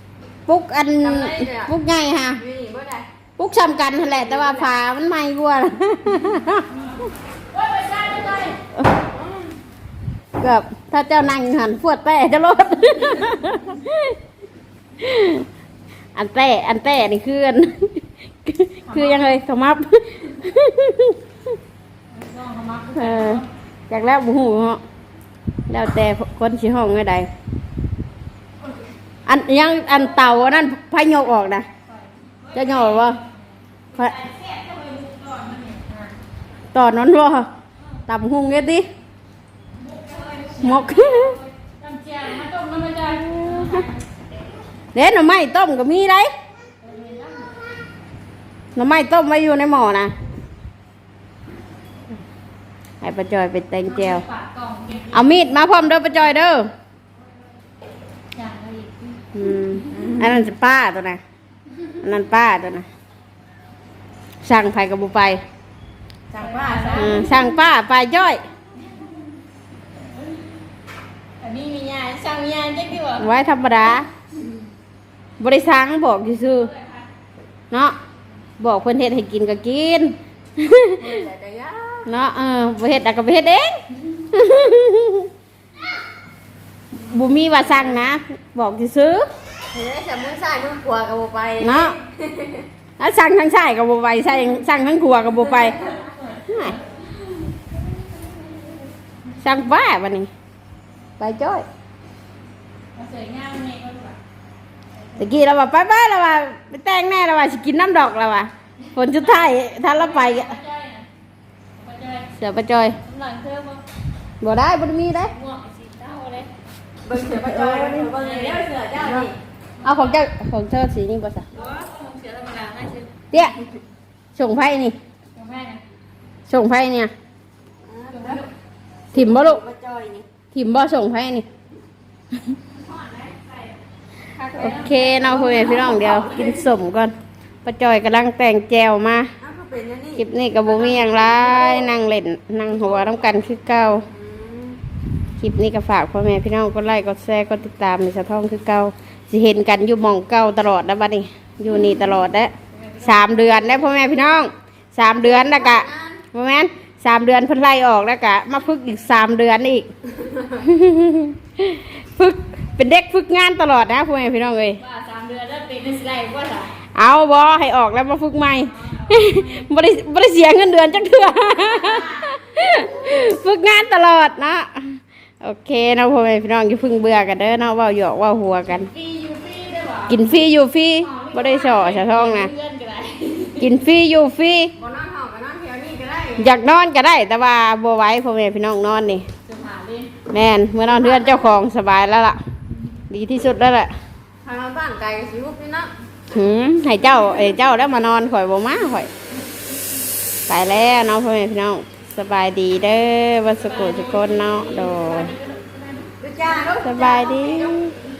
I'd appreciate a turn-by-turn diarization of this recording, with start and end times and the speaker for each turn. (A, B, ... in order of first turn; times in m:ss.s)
0:00.5-0:02.4 A
0:01.0-0:01.7 B
0:02.4-0:03.1 B
0:03.4-0:06.7 A
0:04.2-0:04.7 B
0:07.5-0:08.6 C
0:10.4-0:14.1 A
0:15.0-0:15.4 A
0:16.1-0:21.2 A
0:18.9-0:19.2 C
0:22.1-0:23.4 C
0:22.9-0:24.8 A
0:25.7-0:27.3 A
0:29.2-0:31.6 A
0:31.9-0:33.3 C
0:32.5-0:33.2 A
0:33.9-0:36.1 C
0:36.7-0:37.5 A
0:38.1-0:38.9 A
0:39.8-0:44.0 C
0:40.6-0:41.4 A
0:43.3-0:43.8 A
0:44.9-0:46.3 A
0:46.8-0:47.5 C
0:48.8-0:50.1 A
0:53.0-0:54.2 A
0:53.9-0:55.2 C
0:55.1-0:56.7 A
0:58.4-0:59.1 C
0:59.3-1:01.2 A
0:59.9-1:00.2 B
1:02.0-1:02.9 A
1:04.4-1:05.4 A
1:06.3-1:07.2 C
1:06.4-1:07.0 B
1:06.9-1:08.4 A
1:11.4-1:13.3 C
1:13.1-1:14.1 A
1:15.4-1:16.7 A
1:18.6-1:21.1 A
1:21.0-1:22.1 B
1:22.1-1:25.3 A
1:27.0-1:29.3 A
1:29.7-1:32.6 B
1:31.6-1:32.0 A
1:33.0-1:36.8 A
1:39.4-1:40.3 A
1:41.2-1:41.6 A
1:43.0-1:44.2 C
1:45.2-1:50.6 A
1:49.6-1:51.1 C
1:51.8-1:52.3 C
1:52.4-1:53.0 A
1:53.0-1:53.8 C
1:54.4-1:55.3 A
1:55.3-1:56.5 C
1:57.0-1:59.3 B
1:57.4-1:58.1 A
1:58.1-1:59.2 C
1:59.8-2:01.4 A
2:01.6-2:03.1 C
2:03.3-2:03.6 A
2:04.4-2:05.0 A
2:05.4-2:05.8 C
2:06.5-2:07.1 A
2:07.9-2:08.4 B
2:08.1-2:08.5 C
2:09.1-2:09.6 A
2:09.1-2:10.2 B
2:10.5-2:11.4 A
2:12.7-2:13.7 C
2:14.4-2:15.5 C
2:14.5-2:19.3 A
2:15.2-2:16.7 B
2:19.4-2:20.2 B
2:20.2-2:24.1 A
2:24.1-2:24.8 B
2:25.4-2:39.9 A
2:35.2-2:36.2 B
2:40.5-2:44.8 A
2:44.8-2:46.8 C
2:46.9-2:58.9 A
2:48.8-2:49.6 C
2:58.9-3:00.1 C
3:00.1-3:02.5 A
3:01.1-3:03.6 C
3:03.6-3:04.7 A
3:04.8-3:06.5 B
3:06.4-3:09.2 A
3:09.5-3:10.1 C
3:10.3-3:12.4 A
3:13.1-3:13.9 A
3:14.4-3:15.9 B
3:16.3-3:19.1 A
3:20.5-3:25.3 A
3:23.6-3:27.7 C
3:26.2-3:27.1 B
3:26.8-3:27.9 A